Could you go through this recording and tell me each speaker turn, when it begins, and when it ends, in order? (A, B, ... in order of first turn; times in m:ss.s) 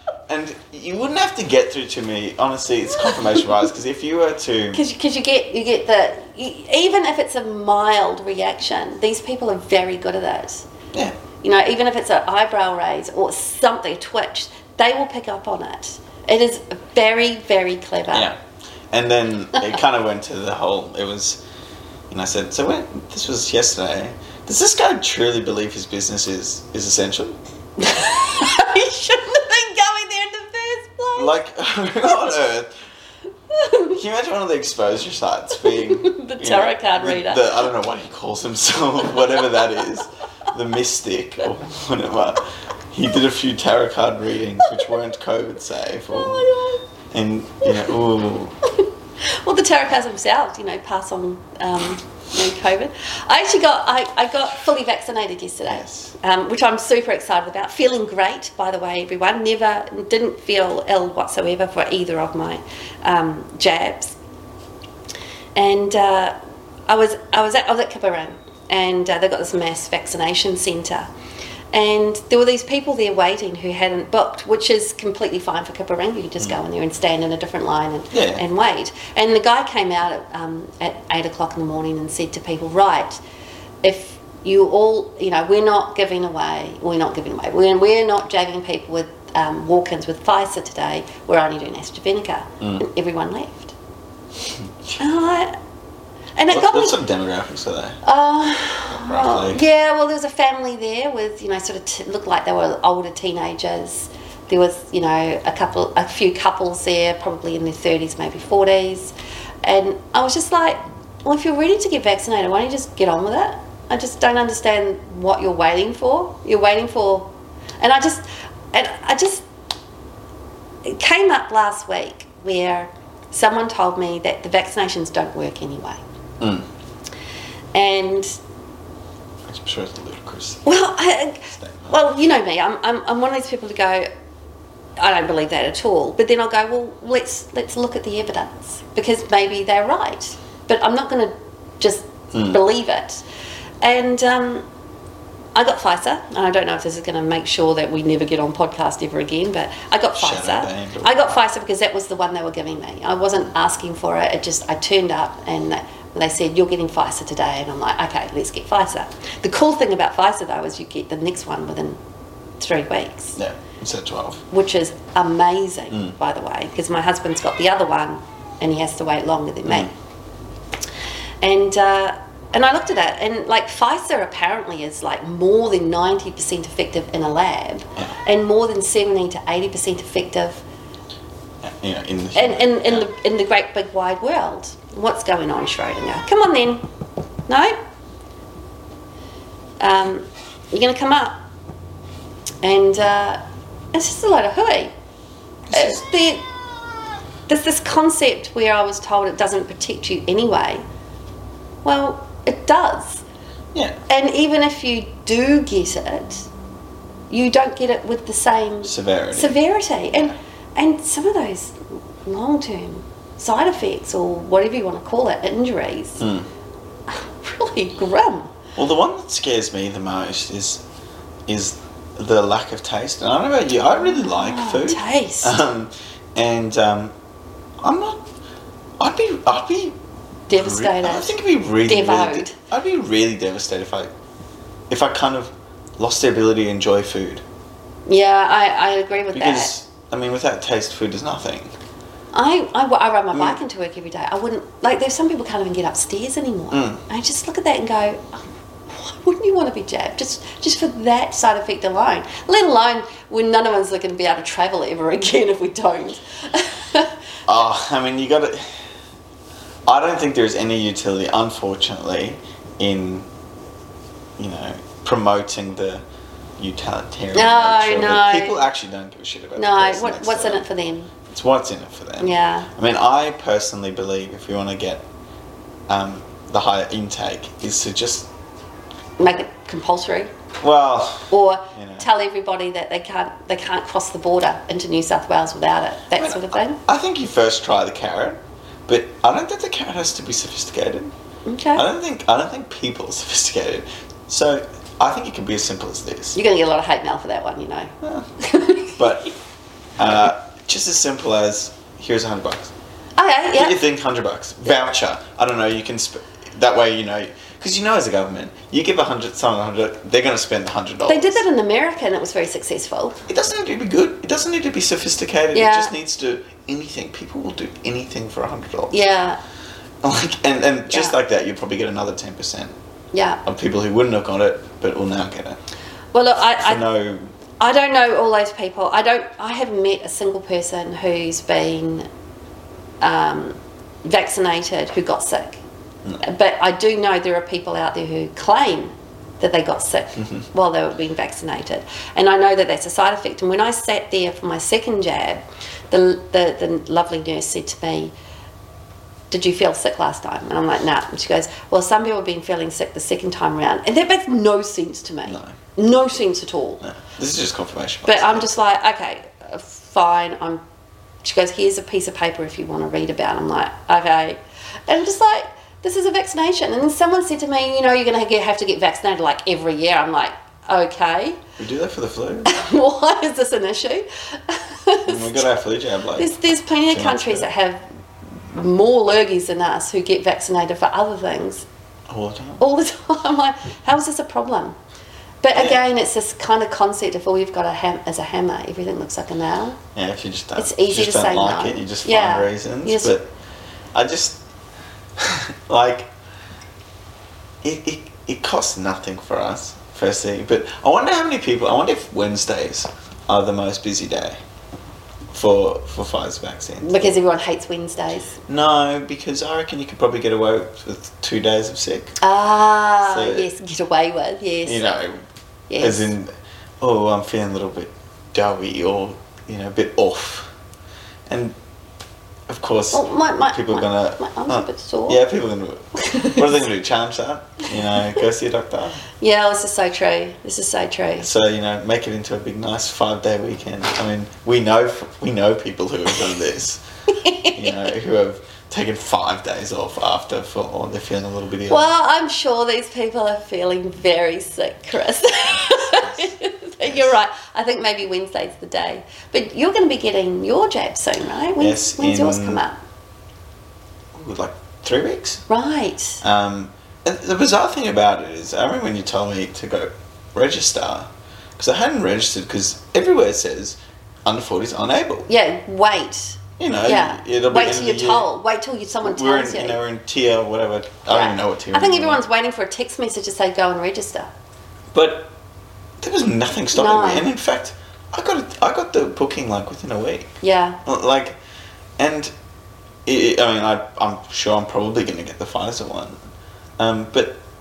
0:00.3-0:04.8 A
0:04.7-0:10.7 B
0:11.4-0:18.3 B
0:18.1-0:18.4 A
0:18.9-0:21.4 A
0:22.1-0:27.4 A
0:27.8-0:31.3 B
0:31.2-0:32.7 A
0:33.5-0:33.9 B
0:33.8-0:46.5 A
0:35.6-0:37.7 B
0:46.1-0:46.8 B
0:47.1-0:48.6 A
0:47.6-0:48.0 B
0:48.6-1:04.2 B
0:55.7-0:56.2 A
1:05.6-1:06.4 B
1:06.9-1:11.1 B
1:11.7-1:23.2 B
1:18.1-1:18.4 A
1:23.8-1:33.7 B
1:35.0-1:35.6 B
1:36.4-1:37.0 B
1:36.5-1:38.0 A
1:38.0-1:59.4 B
1:38.9-1:39.6 A
2:00.8-2:06.0 B
2:06.4-2:06.7 A
2:07.7-2:08.4 B
2:09.5-2:10.7 A
2:10.6-2:14.1 B
2:11.5-2:12.0 A
2:15.0-2:23.2 B
2:22.3-2:22.6 A
2:23.8-2:24.7 B
2:25.6-2:42.0 B
2:30.2-2:31.3 A
2:42.6-2:43.4 B
2:43.4-2:44.4 A
2:44.5-2:49.9 B
2:49.7-2:49.9 A
2:51.4-3:00.6 B
3:01.6-3:03.1 A
3:02.4-3:06.8 B
3:07.5-3:07.8 B
3:09.8-3:11.4 B
3:12.6-3:13.4 B
3:13.9-3:14.9 B
3:15.7-3:16.0 A
3:15.7-3:16.4 B
3:17.5-3:20.8 B
3:21.8-3:23.2 B
3:23.7-3:24.0 A
3:24.1-3:26.5 B
3:27.3-3:36.2 B
3:28.8-3:29.6 A
3:36.2-3:36.5 A
3:37.1-3:38.5 B
3:38.8-3:40.8 A
3:41.5-3:47.1 A
3:43.9-3:45.6 B
3:47.8-3:48.2 A
3:49.0-3:50.0 A
3:50.5-3:52.6 B
3:50.5-3:54.1 A
3:54.9-3:57.4 A
3:58.1-3:59.7 B
3:59.3-4:01.7 A
4:02.3-4:17.2 B
4:03.3-4:03.6 A
4:06.7-4:07.0 A
4:17.5-4:18.8 A
4:19.9-4:23.3 A
4:24.4-4:26.0 A
4:26.6-4:30.7 A
4:27.3-4:28.6 B
4:29.6-4:31.1 B
4:31.2-4:35.0 A
4:32.2-4:32.7 B
4:35.9-4:38.3 A
4:39.2-4:40.3 B
4:40.6-4:42.1 A
4:41.3-4:46.8 B
4:46.2-4:51.1 A
4:51.5-4:51.8 B
4:51.8-4:56.4 A
4:56.4-4:59.0 B
4:58.0-4:58.3 A
4:58.9-4:59.4 A
5:00.0-5:02.7 A
5:03.2-5:03.8 B
5:03.6-5:11.4 A
5:11.1-5:13.2 B
5:13.3-5:19.0 A
5:15.5-5:15.9 B
5:18.9-5:19.4 B
5:20.0-5:22.7 A
5:20.9-5:21.2 B
5:23.1-5:23.4 B
5:23.4-5:25.6 A
5:26.1-5:26.8 B
5:26.6-5:27.3 A
5:27.6-5:32.1 B
5:33.0-5:35.6 B
5:36.2-5:48.1 B
5:40.2-5:40.4 A
5:49.3-5:56.8 B
5:55.3-5:55.6 A
5:56.8-5:58.5 A
5:58.1-6:00.6 B
6:01.2-6:11.4 B
6:11.6-6:12.5 A
6:12.4-6:15.5 B
6:15.0-6:16.3 A
6:16.2-6:21.7 B
6:16.9-6:17.5 A
6:22.1-6:22.6 A
6:22.6-6:24.8 B
6:25.4-6:29.8 B
6:25.6-6:25.8 A
6:30.0-6:33.3 A
6:30.6-6:33.2 B
6:33.9-6:34.4 A
6:35.2-6:36.1 A
6:37.6-6:44.4 A
6:45.3-6:47.2 A
6:46.8-6:48.4 B
6:48.5-6:52.2 A
6:52.2-6:54.9 B
6:53.0-6:53.5 A
6:54.6-6:55.2 A
6:55.7-6:56.1 B
6:55.8-7:00.5 A
7:01.3-7:01.6 A
7:02.5-7:09.1 A
7:02.9-7:05.2 B
7:06.0-7:06.5 B
7:09.2-7:11.3 B
7:11.2-7:16.8 A
7:17.1-7:17.8 B
7:17.5-7:21.9 A
7:21.7-7:32.8 B
7:25.6-7:27.1 A
7:31.6-7:32.6 A
7:34.2-7:35.4 A
7:35.5-7:36.2 B
7:36.2-7:45.3 A
7:45.3-7:49.8 B
7:46.6-7:48.3 A
7:49.0-7:52.2 A
7:51.1-7:54.3 B
7:54.9-7:55.3 A
7:56.0-8:01.4 A
7:56.7-7:57.3 B
8:00.4-8:00.8 B
8:02.0-8:02.3 A
8:03.1-8:06.2 A
8:06.8-8:07.4 A